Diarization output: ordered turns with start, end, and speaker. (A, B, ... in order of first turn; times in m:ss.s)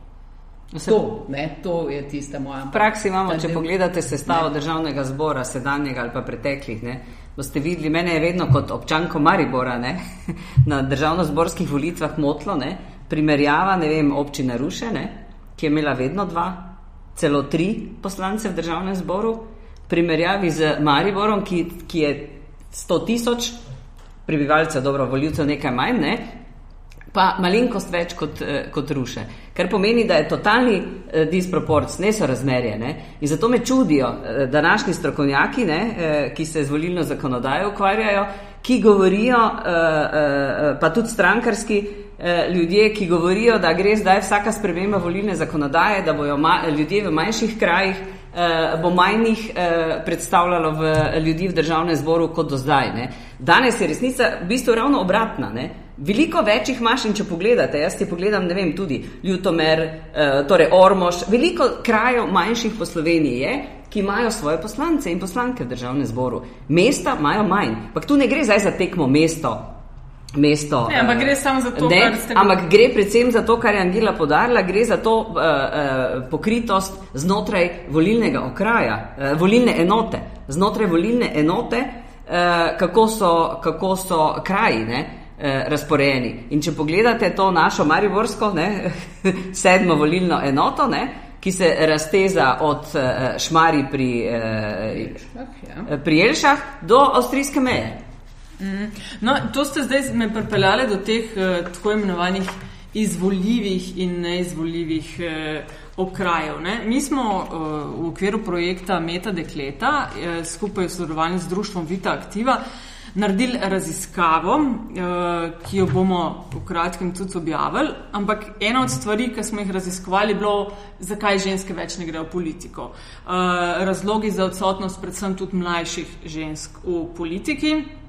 0:00.7-0:01.0 A
0:00.8-0:03.7 B
0:02.7-0:23.6 A
0:24.3-0:26.3 A
0:27.1-1:09.7 A
1:10.4-1:35.1 A
1:10.9-1:12.6 C
1:34.9-1:35.9 B
1:35.9-1:38.0 A
1:38.6-1:52.6 C
1:53.1-2:07.9 C